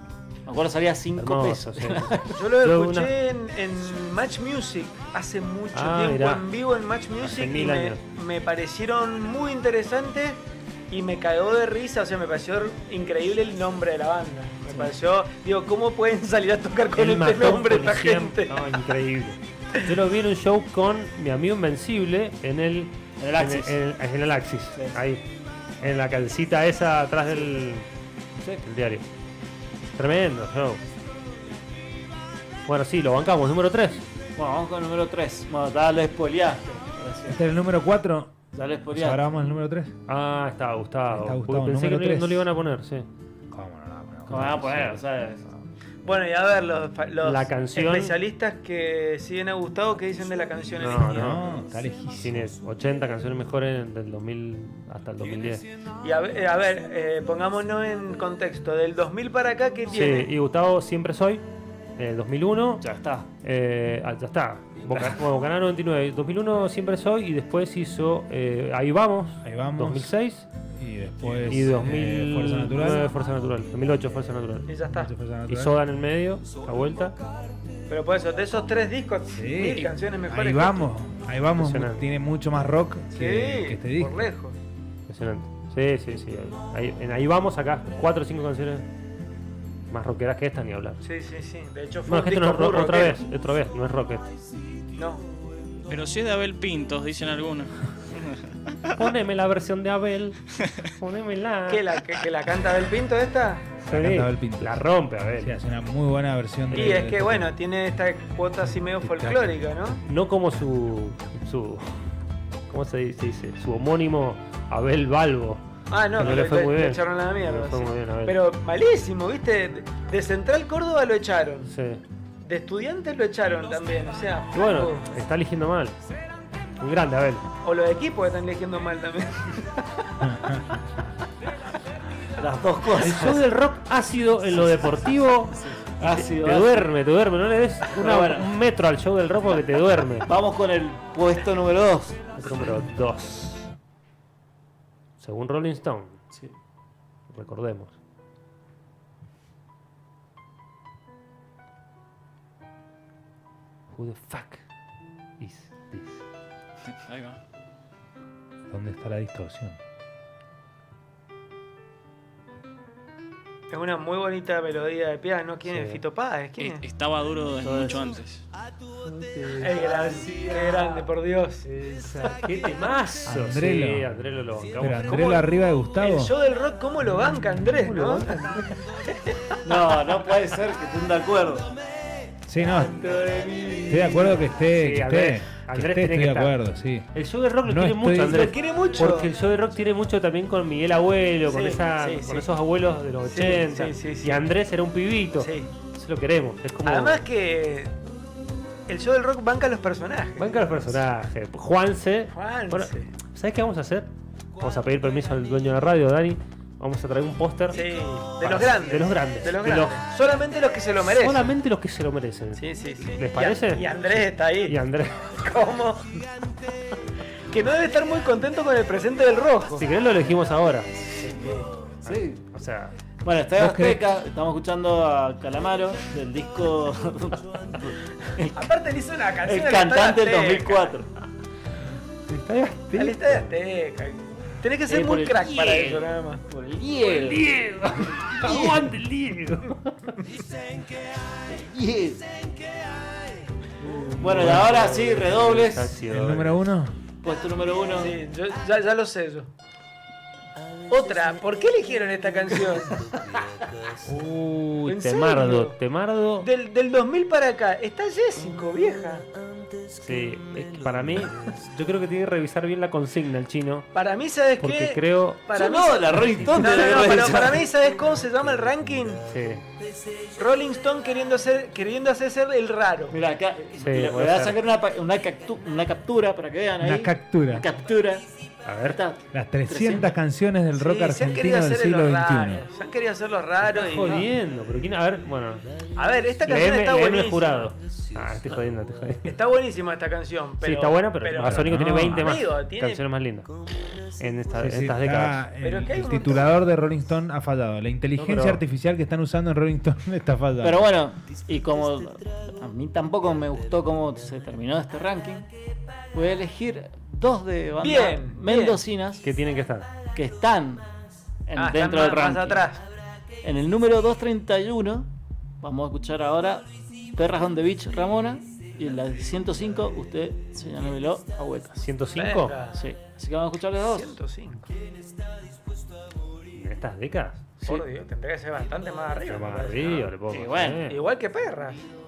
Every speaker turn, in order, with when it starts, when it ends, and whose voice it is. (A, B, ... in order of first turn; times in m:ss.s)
0:00.4-0:02.4 A
0:01.2-0:03.1 B
0:02.3-0:10.4 C
0:05.7-0:06.4 B
0:07.2-0:08.0 B
0:10.9-0:18.7 C
0:14.7-0:14.9 A
0:16.9-0:25.2 B
0:23.2-0:23.8 A
0:24.7-0:25.0 A
0:25.8-0:27.8 B
0:28.6-0:29.0 B
0:29.9-0:30.8 B
0:32.6-0:34.0 B
0:34.4-0:37.4 A
0:37.3-0:38.3 D
0:38.5-0:39.2 A
0:38.9-0:39.9 D
0:40.1-0:43.1 B
0:41.1-0:42.5 D
0:43.5-0:45.6 D
0:44.3-0:45.4 A
0:44.3-0:44.6 B
0:46.0-0:51.4 C
0:47.2-0:48.2 B
0:50.8-0:51.4 B
0:51.0-0:52.6 D
0:52.2-0:55.6 B
0:56.0-1:00.3 C
0:59.9-1:01.4 B
1:02.0-1:02.8 B
1:02.8-1:03.3 A
1:03.4-1:10.5 B
1:09.4-1:10.1 D
1:10.7-1:13.1 D
1:11.4-1:14.7 B
1:14.7-1:15.1 C
1:14.9-1:15.8 D
1:15.5-1:17.2 B
1:17.9-1:20.9 C
1:19.3-1:24.3 D
1:21.6-1:22.1 B
1:23.1-1:24.6 C
1:25.1-1:28.9 B
1:29.9-1:31.0 B
1:31.0-1:33.2 C
1:32.0-1:34.2 B
1:34.9-1:35.2 C
1:35.8-1:39.0 E
1:39.0-1:41.8 B
1:41.7-1:43.8 C
1:43.8-1:45.6 B
1:43.9-1:44.8 D
1:45.4-1:47.5 D
1:46.7-1:47.1 B
1:46.7-1:50.0 C
1:49.0-1:50.0 D
1:50.1-1:52.1 B
1:52.7-1:55.6 B
1:55.9-2:01.7 C
1:56.1-1:58.4 B
2:01.6-2:02.0 B
2:02.4-2:05.0 C
2:04.5-2:06.0 B
2:06.8-2:07.4 B
2:07.6-2:09.8 C
2:10.3-2:10.6 D
2:12.4-2:13.4 A
2:13.0-2:20.3 B
2:14.5-2:14.9 A
2:15.5-2:16.8 A
2:17.9-2:18.5 A
2:20.2-2:22.3 A
2:22.3-2:23.7 B
2:25.2-2:26.2 B
2:27.3-2:28.0 B
2:33.9-2:34.6 B
2:35.4-2:36.2 B
2:36.9-2:37.4 E
2:38.7-2:39.8 D
2:43.7-2:46.8 C
2:45.6-2:46.0 B
2:46.6-2:48.4 E
2:47.6-2:48.2 A
2:49.0-2:51.0 B
2:49.6-2:51.7 C
2:51.7-2:55.4 B
2:53.2-2:54.1 D
2:54.8-2:56.3 D
2:55.1-2:55.4 C
2:56.0-2:58.3 C
2:57.8-2:58.8 B
2:59.1-2:59.5 C
2:59.6-3:01.7 A
3:02.4-3:03.1 D
3:03.0-3:06.6 B
3:03.8-3:07.1 D
3:07.1-3:17.2 B
3:07.6-3:08.5 D
3:08.3-3:09.3 C
3:11.5-3:12.5 C
3:13.2-3:14.5 C
3:15.4-3:15.7 C
3:16.8-3:17.9 C
3:18.9-3:20.6 C
3:20.4-3:27.9 B
3:22.3-3:23.1 C
3:27.7-3:31.6 C
3:28.4-3:30.0 B
3:31.1-3:33.9 B
3:32.5-3:34.8 C
3:34.6-3:35.3 B
3:35.3-3:36.1 C
3:37.5-3:39.8 C
3:39.8-3:41.2 B
3:41.1-3:41.7 C
3:42.0-3:43.0 B
3:42.0-3:42.4 A
3:43.2-3:48.7 A
3:43.5-3:44.0 D
3:48.5-3:51.0 C
3:49.4-3:51.1 A
3:52.3-3:53.5 B
3:52.9-3:56.4 C
3:54.9-3:56.0 B
3:55.0-3:57.4 A
3:57.0-4:00.2 B
3:58.2-3:58.9 A
4:01.5-4:02.4 A
4:03.8-4:06.6 B
4:04.0-4:05.9 A
4:04.3-4:04.7 D
4:06.1-4:07.0 D
4:07.2-4:08.2 A
4:07.9-4:09.5 C
4:10.9-4:13.0 C
4:14.1-4:14.6 D
4:14.1-4:16.5 B
4:14.8-4:15.8 C
4:16.4-4:19.2 C
4:19.9-4:23.9 B
4:23.9-4:29.2 C
4:24.6-4:25.4 B
4:25.5-4:27.6 A
4:26.2-4:26.9 B
4:29.3-4:29.6 B
4:30.4-4:33.2 C
4:33.1-4:38.2 A
4:33.8-4:34.6 B
4:36.8-4:37.7 D
4:38.6-4:39.0 B
4:38.8-4:40.2 A
4:39.3-4:42.6 D
4:40.7-4:44.2 C
4:43.6-4:45.6 B
4:46.0-4:47.7 C
4:46.4-4:49.4 B
4:49.2-4:53.0 C
4:50.6-4:53.5 B
4:51.4-4:52.3 D
4:54.2-4:55.4 B
4:54.6-5:00.9 D
4:55.6-4:56.6 C
4:58.2-4:58.6 B
5:00.6-5:05.5 A
5:06.1-5:09.2 A
5:07.8-5:08.8 C
5:09.2-5:09.9 B
5:10.1-5:10.8 A
5:11.5-5:12.7 A
5:11.5-5:12.8 C
5:13.4-5:15.1 A
5:15.6-5:21.8 A
5:21.8-5:22.6 B
5:22.1-5:22.8 C
5:22.7-5:24.2 A
5:23.9-5:24.7 C
5:26.5-5:27.5 B
5:27.6-5:30.1 C
5:29.2-5:31.0 B
5:30.3-5:30.8 A
5:30.8-5:31.8 C